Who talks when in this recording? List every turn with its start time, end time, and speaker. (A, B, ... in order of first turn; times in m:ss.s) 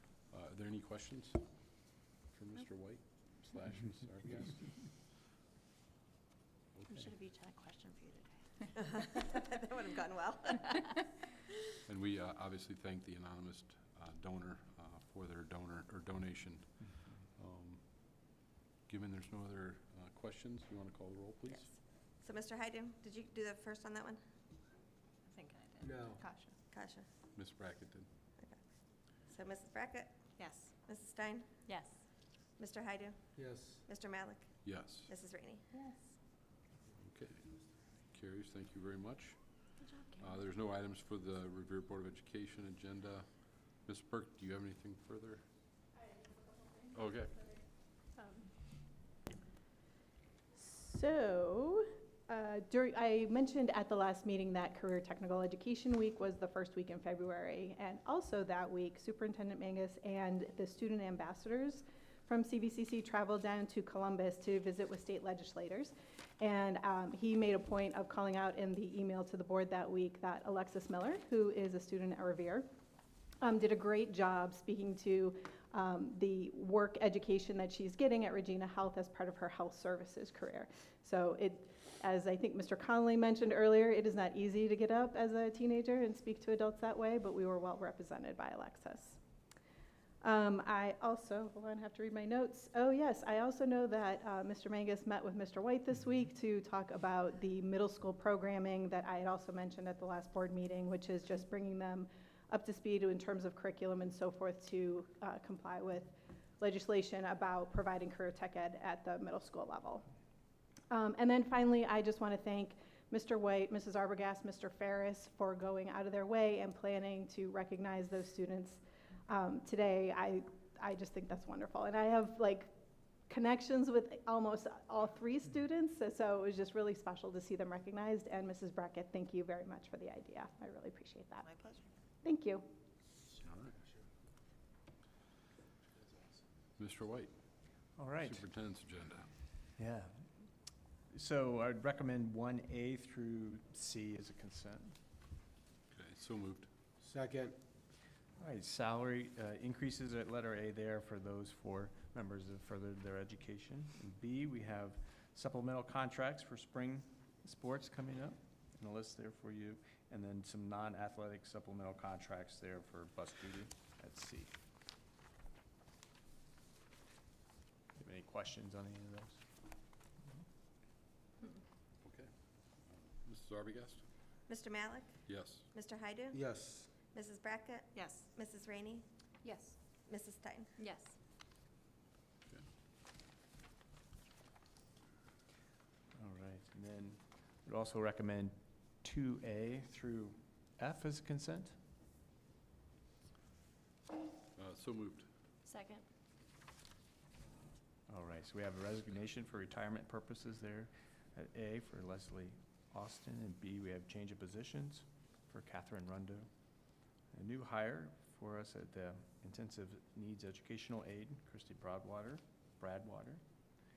0:00.3-0:04.9 A
0:06.8-0:07.1 A
0:07.3-0:07.9 B
0:08.9-0:10.9 C
0:11.9-0:18.3 A
0:18.9-0:21.8 A
0:22.2-0:24.2 C
0:25.8-0:26.3 D
0:26.1-0:26.6 B
0:26.7-0:27.1 C
0:27.3-0:28.1 A
0:28.4-0:31.5 C
0:31.7-0:32.0 B
0:32.6-0:33.3 C
0:33.4-0:33.9 D
0:33.9-0:35.7 C
0:34.6-0:35.1 A
0:37.0-0:45.5 A
0:39.8-0:40.4 B
0:46.9-0:47.5 A
0:50.6-1:12.7 E
1:13.4-1:29.2 E
1:30.2-1:50.0 E
1:50.9-2:02.7 E
2:03.3-2:11.5 E
2:12.2-2:12.7 E
2:13.4-2:13.8 A
2:16.8-2:17.4 A
2:18.0-2:18.4 F
2:18.2-2:19.3 A
2:19.8-2:20.3 F
2:21.1-2:25.0 F
2:25.9-2:26.7 A
2:27.0-2:27.6 D
2:28.4-2:44.5 F
2:48.0-2:49.4 F
2:52.0-2:52.3 A
2:52.9-2:54.0 A
2:54.5-2:56.4 C
2:55.3-2:55.7 A
2:56.3-2:56.9 D
2:57.1-2:59.1 C
2:59.4-2:59.8 B
3:00.1-3:00.7 C
3:00.8-3:01.2 B
3:06.2-3:11.8 F
3:14.6-3:15.3 A
3:15.6-3:16.0 B
3:18.1-3:26.5 F
3:27.3-3:33.4 F